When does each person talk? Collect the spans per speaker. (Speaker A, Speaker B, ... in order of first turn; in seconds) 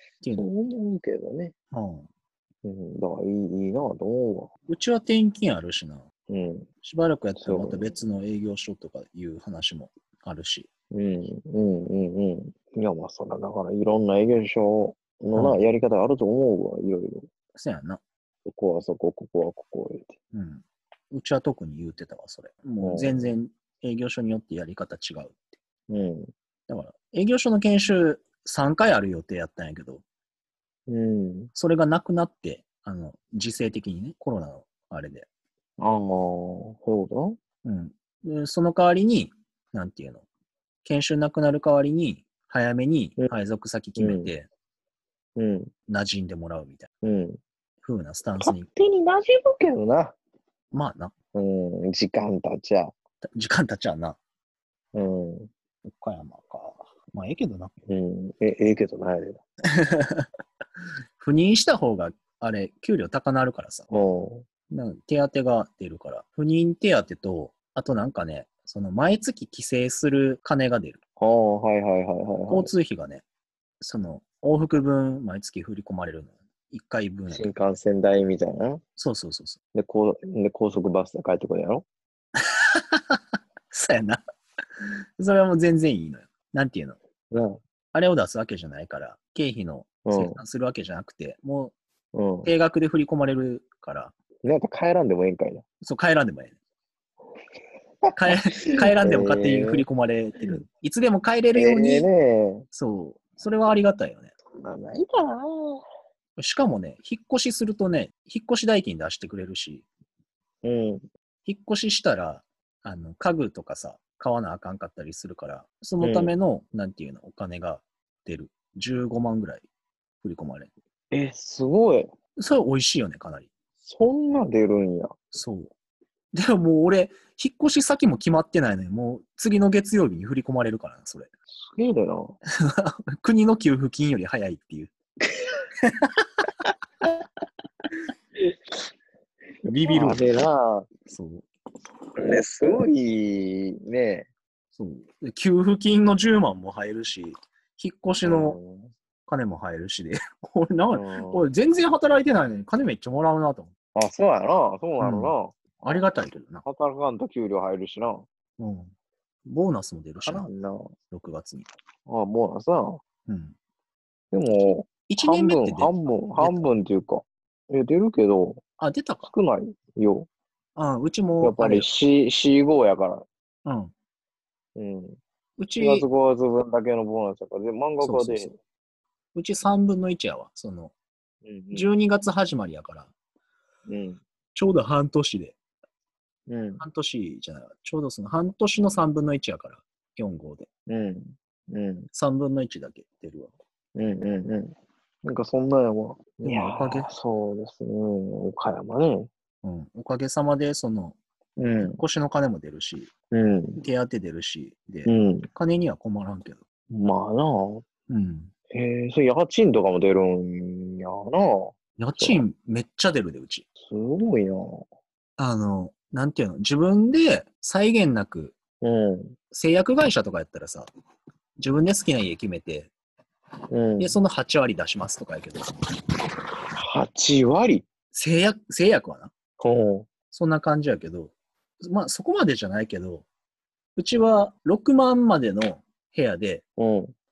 Speaker A: 0.2-0.5, 1.7-2.1, 4.7-6.1, 6.8-10.7, 17.6-18.0, 20.3-25.4, 26.7-30.0, 31.6-35.2, 37.6-40.2, 40.8-44.5, 45.9-46.9, 47.8-48.7, 50.7-51.1, 53.4-54.2, 55.9-57.7, 59.8-60.3, 61.2-63.9, 64.7-71.0, 72.5-73.2, 73.8-77.7, 79.0-79.6, 82.6-83.2, 83.7-84.2, 84.8-87.0, 87.9-91.8, 92.4-94.1, 95.8-96.5, 98.2-102.1, 102.7-104.3, 106.4-109.8, 111.4-119.7, 120.2-120.7, 122.4-123.5, 125.3-125.7, 126.3-131.3, 132.6-134.9, 139.7-140.3, 141.1-141.4, 144.8-148.6, 149.3-153.7, 155.0-156.6, 158.6-158.9, 159.5-160.5, 161.1-161.7, 163.3-163.6, 165.1-166.6, 168.8-169.3, 170.8-171.9, 173.7-173.9, 175.6-176.1, 178.0-178.5, 179.3-180.9, 181.7-183.1, 184.6-185.6, 186.8-190.7, 192.1-193.5, 196.4-197.1, 199.6-201.2, 201.8-203.1, 203.8-206.6, 208.1-208.5, 212.0-213.7, 215.4-218.6, 219.5-220.9, 221.6-222.9, 224.0-225.7, 228.1-229.3, 230.3-233.2, 233.9-236.6
Speaker B: 0.3-1.5, 2.6-4.5, 6.3-6.7, 7.4-8.0, 10.9-17.3, 18.5-20.2, 22.8-23.4, 25.9-26.3, 30.9-31.5, 35.8-37.4, 44.0-44.3, 45.4-45.7, 47.0-47.4, 48.4-50.2, 51.3-52.9, 54.9-55.5, 57.9-59.4, 63.9-64.5, 71.2-72.7, 77.3-78.8, 79.7-81.8, 87.3-87.6, 90.1-90.4, 92.1-92.5, 94.4-95.7, 98.0-99.8, 101.5-102.7, 104.6-105.8, 110.6-111.0, 116.0-116.3, 121.1-122.1, 123.8-125.1, 131.5-132.4, 139.9-140.9, 142.2-144.3, 148.2-148.9, 150.9-151.5, 153.9-155.6, 156.6-158.3, 160.2-160.9, 162.1-163.0, 164.3-168.6, 169.2-170.3, 171.4-173.2, 174.8-175.2, 175.8-178.6, 181.4-181.9, 183.9-184.2, 186.5-186.8, 190.9-192.1, 193.9-199.3, 201.6-202.0, 203.3-203.8, 205.1-205.5, 206.9-207.8, 208.7-212.4, 213.8-214.9, 218.8-219.4, 223.7-224.2, 226.8-227.9, 229.6-230.1, 236.8-237.1